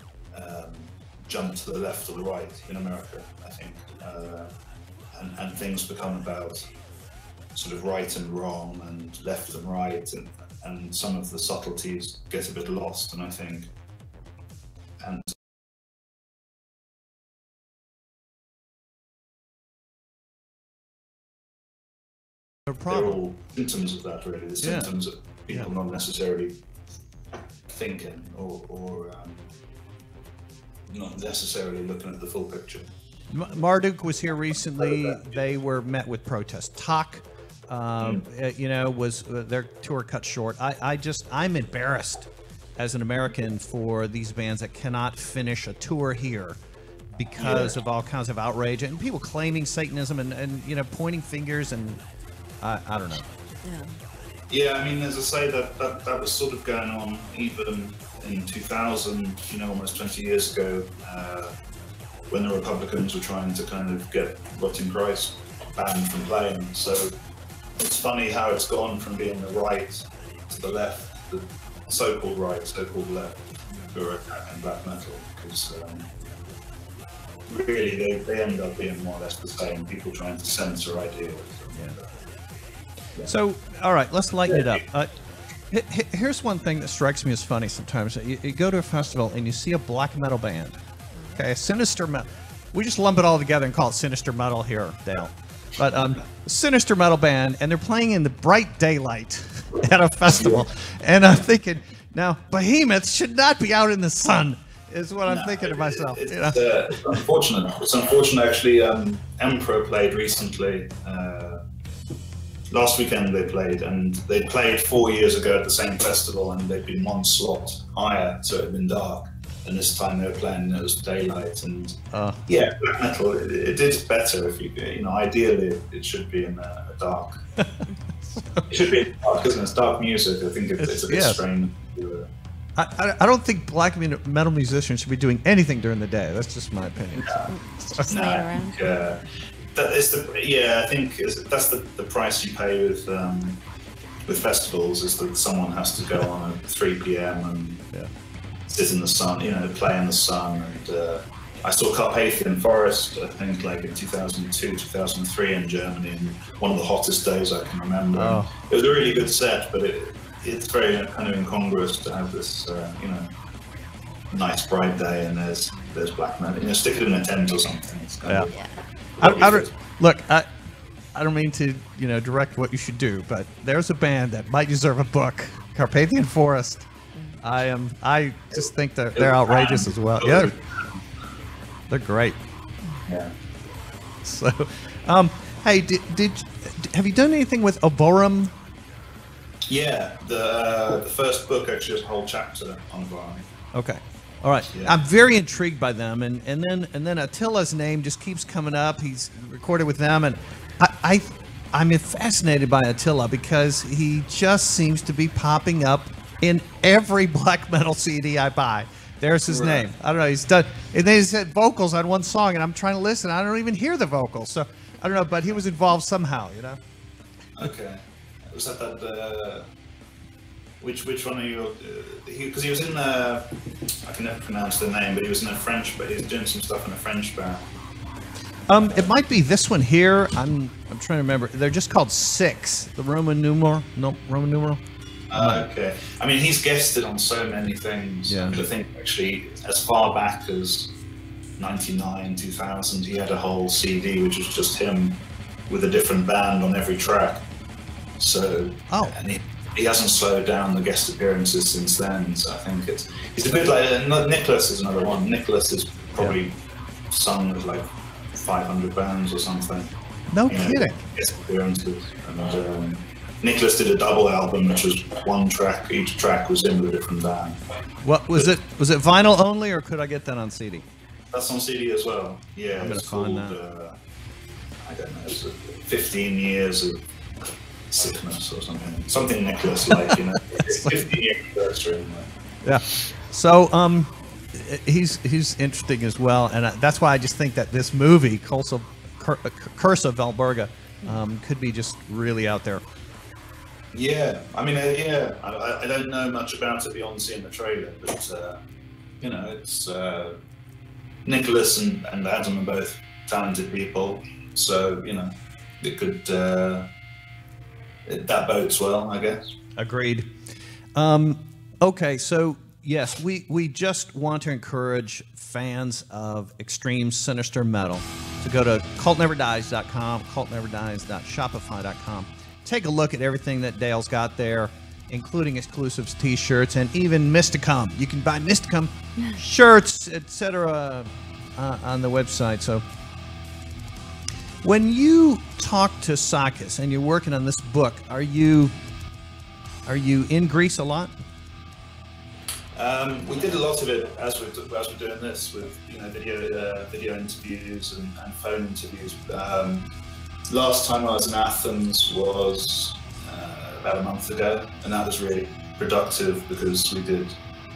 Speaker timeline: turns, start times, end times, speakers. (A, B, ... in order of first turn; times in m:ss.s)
0:00.3-0:04.5 A
0:05.1-0:06.7 A
0:07.6-0:13.7 A
0:15.0-0:15.3 A
0:22.7-0:23.2 B
0:22.9-0:26.5 A
0:24.6-0:24.9 B
0:27.7-0:29.4 A
0:30.9-0:32.9 A
0:33.3-0:46.6 B
0:34.8-0:35.2 A
0:47.2-0:52.0 B
0:47.4-0:47.8 A
0:52.6-0:53.3 B
0:53.6-0:53.9 C
0:54.5-1:01.5 A
1:02.3-1:07.1 A
1:07.8-1:13.4 A
1:13.9-1:16.1 A
1:17.5-1:22.1 A
1:23.3-1:25.1 B
1:24.5-1:24.8 A
1:25.7-1:30.8 B
1:31.2-1:31.4 C
1:31.4-1:46.7 B
1:40.3-1:40.6 A
1:45.3-1:51.6 A
1:52.7-2:07.4 A
2:02.1-2:02.4 B
2:07.6-2:08.7 B
2:08.7-2:12.3 A
2:10.8-2:11.4 B
2:12.8-2:18.1 B
2:17.5-2:18.8 C
2:18.1-2:19.2 A
2:19.7-2:23.6 A
2:24.3-2:27.8 A
2:28.7-2:43.3 A
2:38.1-2:38.5 B
2:44.3-2:48.6 A
2:48.3-2:48.5 B
2:49.2-2:50.5 B
2:49.2-2:49.7 A
2:51.1-2:56.9 B
2:57.4-3:00.5 B
2:59.2-3:01.0 A
3:01.9-3:02.4 B
3:04.2-3:08.5 B
3:09.7-3:13.4 A
3:13.7-3:36.8 B
3:29.5-3:29.9 A
3:37.6-3:39.7 A
3:40.8-3:43.5 A
3:44.0-3:47.6 A
3:48.7-3:54.8 B
3:48.7-3:49.1 A
3:55.3-4:00.9 A
3:55.3-3:55.6 B
3:58.3-3:58.6 B
4:01.6-4:07.4 A
4:08.2-4:16.6 A
4:08.9-4:09.2 B
4:17.1-4:19.9 A
4:20.3-4:21.0 B
4:20.5-4:27.6 A
4:28.0-4:30.9 B
4:31.3-4:34.0 A
4:32.7-4:33.6 B
4:34.9-4:37.0 A
4:37.9-4:42.3 A
4:40.6-4:41.1 B
4:42.6-4:52.8 B
4:53.9-4:58.6 A
4:59.2-5:00.4 A
5:01.2-5:06.9 A
5:08.1-5:09.5 A
5:09.8-5:10.4 B
5:11.0-5:32.8 B
5:34.6-5:38.7 B
5:39.9-5:41.1 B
5:42.8-5:49.9 A
5:50.5-5:57.3 A